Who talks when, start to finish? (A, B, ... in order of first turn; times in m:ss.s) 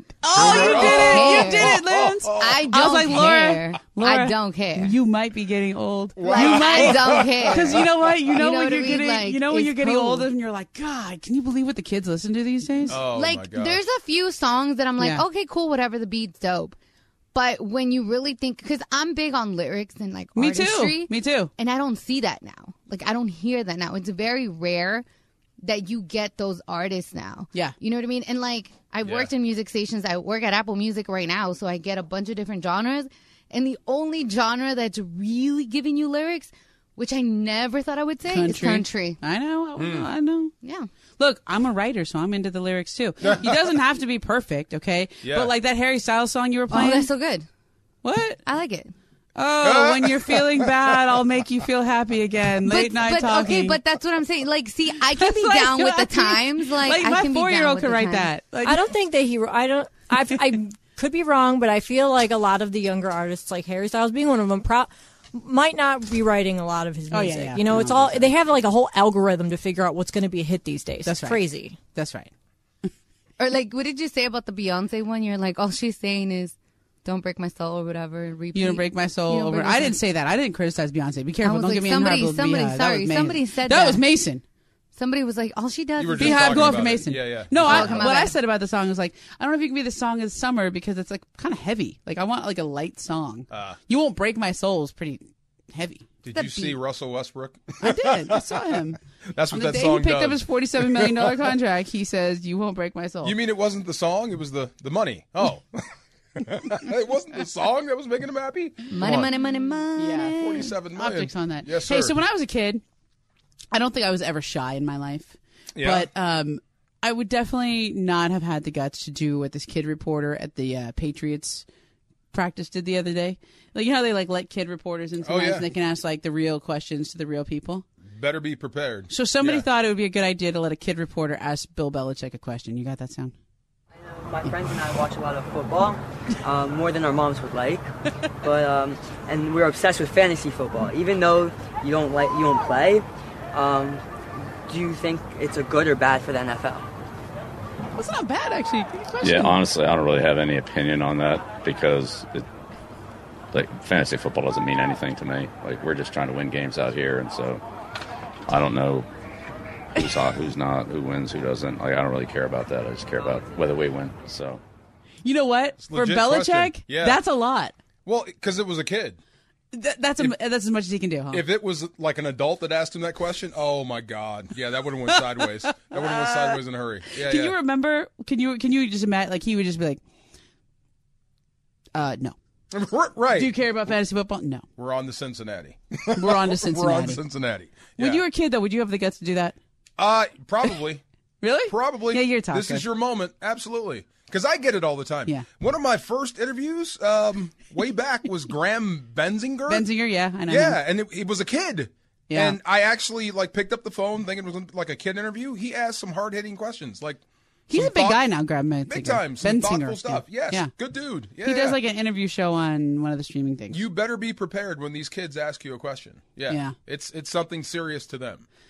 0:00.2-0:13.0 A
0:00.3-0:02.6 B
0:00.4-0:01.8 C
0:02.4-0:04.9 C
0:06.2-0:08.3 B
0:06.3-0:10.3 C
0:12.9-0:16.8 C
0:12.9-0:13.8 B
0:15.0-0:15.2 A
0:17.3-0:25.0 C
0:20.4-0:21.5 A
0:25.6-0:39.2 C
0:29.0-0:29.3 B
0:38.3-0:40.5 A
0:39.8-0:40.1 B
0:40.6-0:40.9 C
0:41.2-0:47.1 A
0:43.2-0:43.6 B
0:45.2-0:45.5 B
0:46.7-0:47.4 C
0:48.0-0:48.4 A
0:48.4-0:48.9 C
0:49.4-0:53.8 A
0:49.6-0:50.5 B
0:52.6-0:58.3 C
0:55.1-0:58.9 A
0:58.6-1:11.8 D
1:07.1-1:08.3 A
1:11.0-1:11.4 A
1:11.9-1:12.3 A
1:13.4-1:20.0 C
1:18.5-1:24.4 A
1:21.4-1:24.0 C
1:24.9-1:27.0 C
1:26.0-1:28.1 B
1:26.2-1:36.7 A
1:27.6-1:28.4 C
1:33.5-1:33.8 B
1:36.2-1:38.6 B
1:37.8-1:39.0 A
1:39.3-1:41.4 B
1:39.5-1:43.4 A
1:43.2-1:49.3 B
1:48.9-1:50.7 C
1:50.0-1:52.8 A
1:50.4-1:52.2 B
1:53.7-2:01.6 A
1:55.8-1:56.1 B
2:02.3-2:07.9 A
2:05.2-2:05.6 B
2:08.1-2:09.7 B
2:09.1-2:13.3 A
2:14.0-2:17.9 E
2:18.4-2:24.0 E
2:24.7-2:26.9 E
2:27.9-2:29.6 A
2:29.2-2:32.4 F
2:33.5-2:37.6 F
2:38.5-2:39.1 F
2:40.0-2:44.6 F
2:45.2-2:47.7 A
2:45.8-2:47.2 B
2:48.0-2:49.2 B
2:49.7-2:51.4 A
2:51.3-2:57.6 B
2:55.4-2:56.6 A
2:57.1-3:00.0 A
3:01.9-3:02.4 A
3:02.7-3:03.5 B
3:03.3-3:04.6 A
3:04.8-3:08.2 B
3:06.2-3:07.2 A
3:08.0-3:09.6 A
3:10.0-3:11.0 B
3:11.4-3:12.9 A
3:11.7-3:19.9 B
3:19.7-3:20.8 A
3:20.5-3:28.2 B
3:22.3-3:22.6 A
3:27.7-3:30.7 A
3:28.9-3:31.8 B
3:31.4-3:33.8 A
3:33.7-3:38.4 B
3:36.5-3:36.8 A